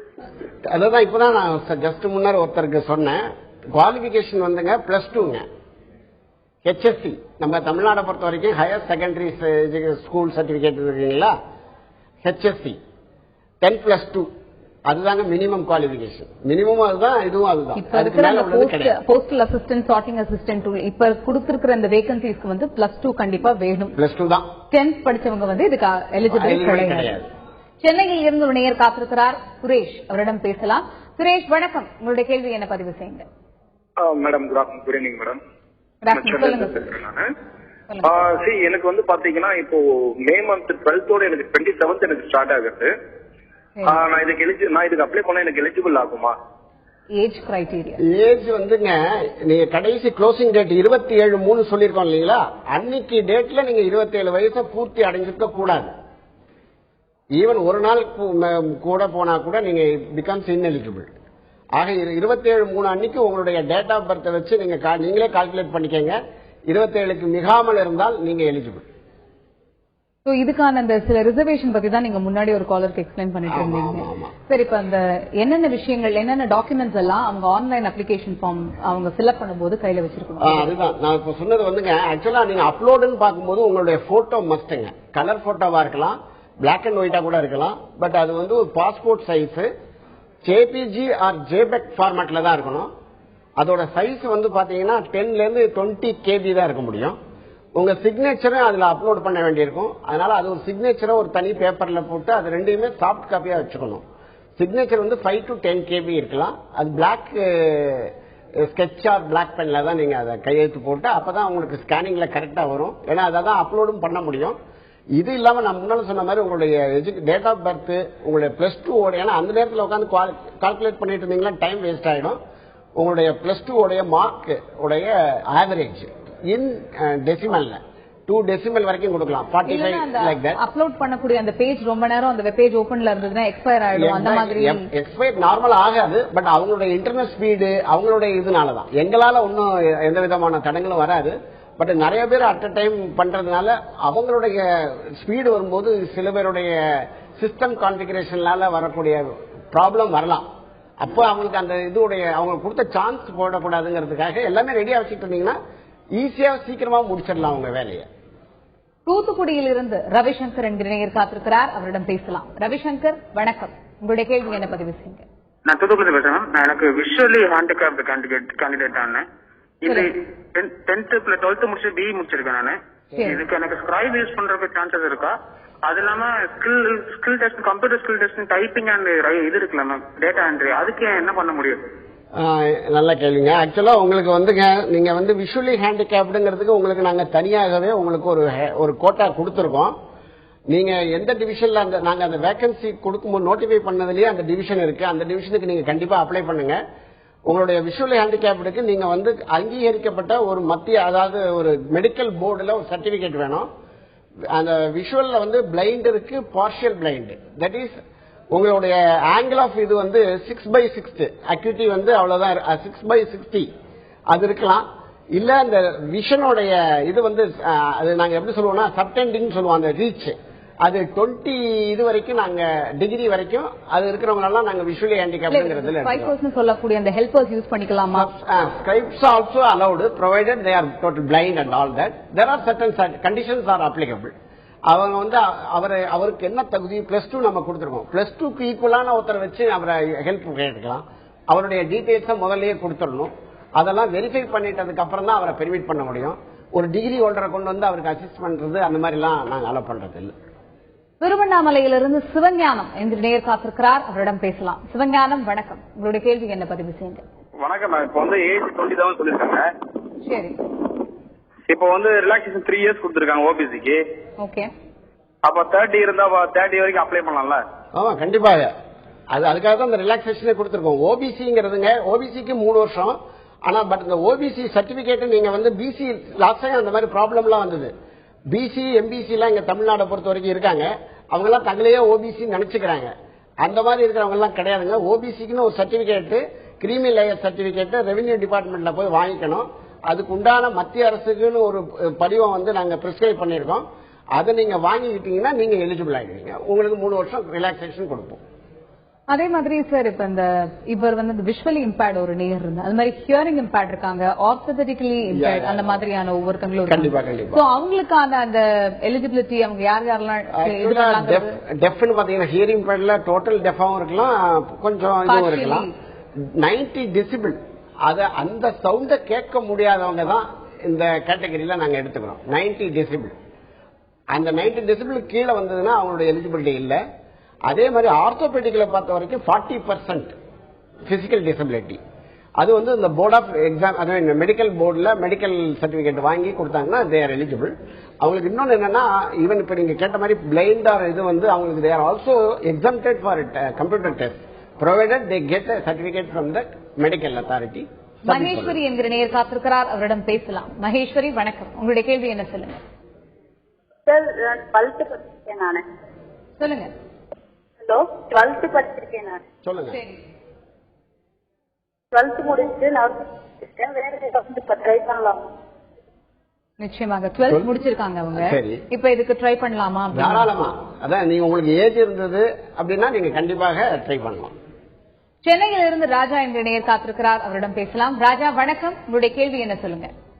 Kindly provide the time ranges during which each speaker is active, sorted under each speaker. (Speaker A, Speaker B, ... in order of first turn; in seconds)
Speaker A: 0.7-5.5, 6.6-11.3, 12.2-12.8, 13.6-14.3, 14.9-19.0, 23.9-24.5, 26.3-27.3, 48.0-55.9, 57.4-61.1, 61.8-66.2, 66.7-68.9, 73.5-74.3, 80.4-89.7, 90.4-92.9, 93.6-97.2, 97.8-104.0, 104.6-114.6, 115.2-122.4, 123.0-130.6, 133.9-150.5, 151.0-155.6, 156.2-158.1, 182.4-189.9, 190.7-196.8, 197.5-203.7, 204.5-208.0, 208.5-213.7, 214.3-226.3, 228.1-234.3, 234.9-250.3, 267.9-268.7, 269.3-277.9, 278.5-298.4, 305.3-306.0, 306.9-307.6, 310.5-315.9, 316.6-323.4, 324.3-327.0, 327.7-330.4, 331.1-332.0, 332.6-348.8, 359.6-360.0, 368.4-368.8, 370.1-374.5
Speaker B: 17.8-23.9, 24.7-27.1, 27.8-33.3, 36.0-36.8, 47.2-48.0, 70.3-80.7, 129.7-134.9, 159.1-165.2, 225.5-228.3, 251.2-257.2, 260.2-260.6, 264.4-264.7, 299.3-311.5, 315.3-315.9, 348.3-352.8, 356.6-356.9, 359.9-360.2, 366.8-370.5, 375.4-380.1
Speaker C: 34.1-35.4, 36.9-37.2, 257.6-259.6, 261.7-264.0, 265.4-267.6
Speaker D: 38.0-42.9, 43.9-46.4
Speaker E: 165.7-169.2, 169.8-175.3, 175.8-181.8
Speaker F: 354.1-355.8, 357.9-359.4, 362.1-363.1, 363.8-365.4